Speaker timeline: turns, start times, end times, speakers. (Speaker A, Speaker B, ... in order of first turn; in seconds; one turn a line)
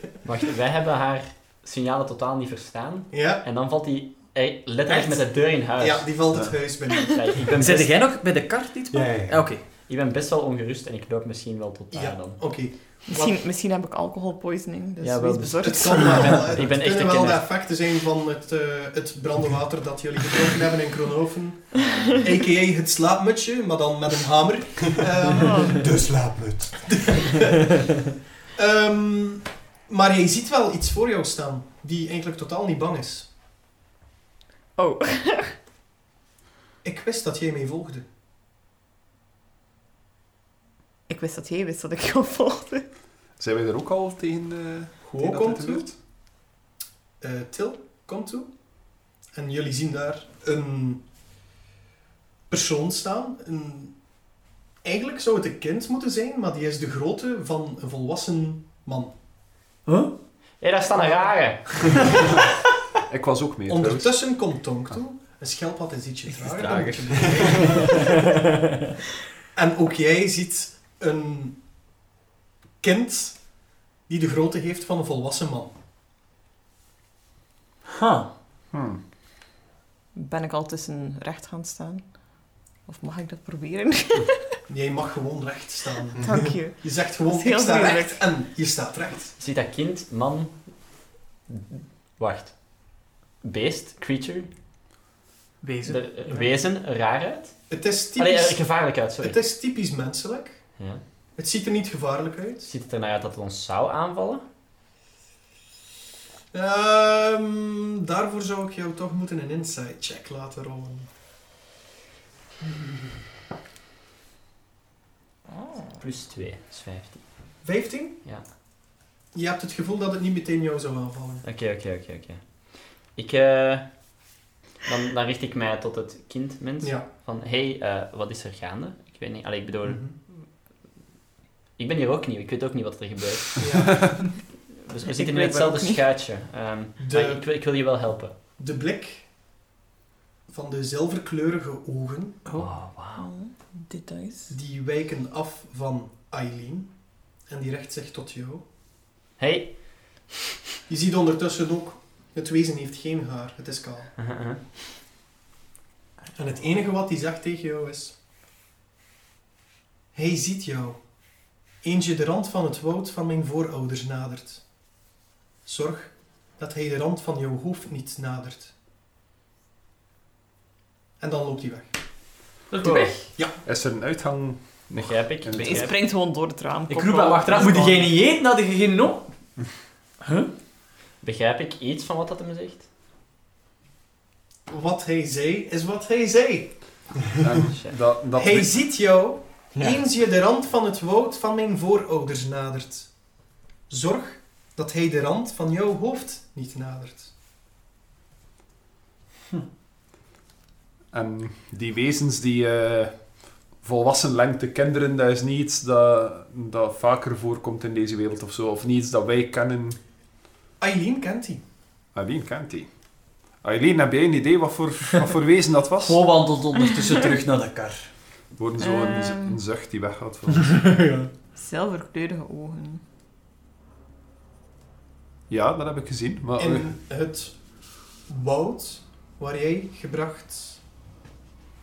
Speaker A: 0.2-6.2
Speaker B: 3.1-3.4
Speaker B: 4.9-7.5
Speaker C: 6.3-6.7
Speaker A: 7.1-7.9
Speaker D: 7.5-9.6
Speaker E: 8.9-9.5
Speaker A: 9.8-12.6
Speaker B: 11.9-13.4
Speaker F: 13.1-16.4
Speaker A: 15.0-17.5
Speaker B: 15.6-25.8
Speaker F: 21.8-22.2
Speaker F: 25.4-25.9
Speaker E: 25.8-27.2
Speaker B: 26.9-27.7
Speaker B: 28.6-33.3
Speaker F: 34.8-35.5
Speaker B: 36.8-38.1
Speaker F: 41.1-42.9
Speaker C: 43.4-46.0
Speaker B: 45.0-45.9
Speaker B: 47.2-48.5
Speaker B: 49.3-51.0
Speaker B: 52.5-54.0
Speaker B: 54.8-59.1
Speaker D: 59.9-60.1
Speaker A: 60.6-62.1
Speaker C: 63.1-64.2
Speaker B: 63.7-68.0
Speaker D: 66.3-67.9
Speaker B: 69.5-71.6
Speaker B: 72.8-73.4
Speaker B: 74.1-75.7
Speaker D: 77.9-78.3
Speaker C: 78.7-79.0
Speaker F: 80.2-82.1
Speaker F: 82.9-84.5
Speaker B: 84.7-89.3
Speaker E: 86.2-86.5
Speaker F: 86.2-88.2
Speaker A: 89.4-90.7
Speaker A: 91.5-94.5
Speaker D: 95.6-96.3
Speaker A: 95.8-97.5
Speaker B: 97.7-100.7
Speaker A: 98.2-99.4
Speaker A: 100.8-101.0
Speaker B: 101.4-102.7
Speaker A: 102.7-104.5
Speaker B: 106.5-111.1
Speaker A: 116.0-117.2
Speaker B: 117.6-118.2
Speaker B: 119.3-121.4
Speaker A: 121.4-124.0
Speaker A: 124.8-130.4
Speaker B: 126.8-127.1
Speaker B: 129.8-130.2
Speaker A: 131.8-133.6
Speaker B: 133.6-134.3
Speaker A: 134.8-138.4
Speaker F: 135.1-136.0
Speaker B: 137.0-137.6
Speaker B: 138.6-139.3
Speaker B: 140.5-142.4
Speaker D: 142.5-142.7
Speaker A: 142.5-143.3
Speaker F: 143.2-144.6
Speaker B: 144.5-146.9
Speaker B: 147.5-148.6
Speaker A: 149.4-150.2
Speaker B: 150.9-154.1
Speaker A: 154.2-154.6
Speaker B: 156.3-158.2
Speaker B: 160.1-161.0
Speaker B: 161.8-164.6
Speaker B: 165.7-168.7
Speaker B: 171.2-171.9
Speaker A: 172.7-173.3
Speaker D: 172.8-173.1
Speaker C: 173.7-175.9
Speaker A: 174.9-176.0
Speaker F: 175.5-178.1
Speaker D: 176.9-179.3
Speaker D: 180.2-180.5
Speaker A: 181.2-182.9
Speaker B: 184.7-187.1
Speaker C: 187.4-188.8
Speaker A: 187.7-188.0
Speaker B: 188.3-193.1
Speaker B: 193.9-197.3
Speaker C: 201.1-203.2
Speaker C: 203.8-210.0
Speaker B: 210.8-211.6
Speaker C: 212.2-212.9
Speaker C: 213.6-216.2
Speaker D: 216.0-218.1
Speaker C: 218.6-220.9
Speaker F: 218.8-219.6
Speaker F: 221.6-223.0
Speaker C: 225.5-226.9
Speaker B: 226.6-227.6
Speaker B: 228.3-230.8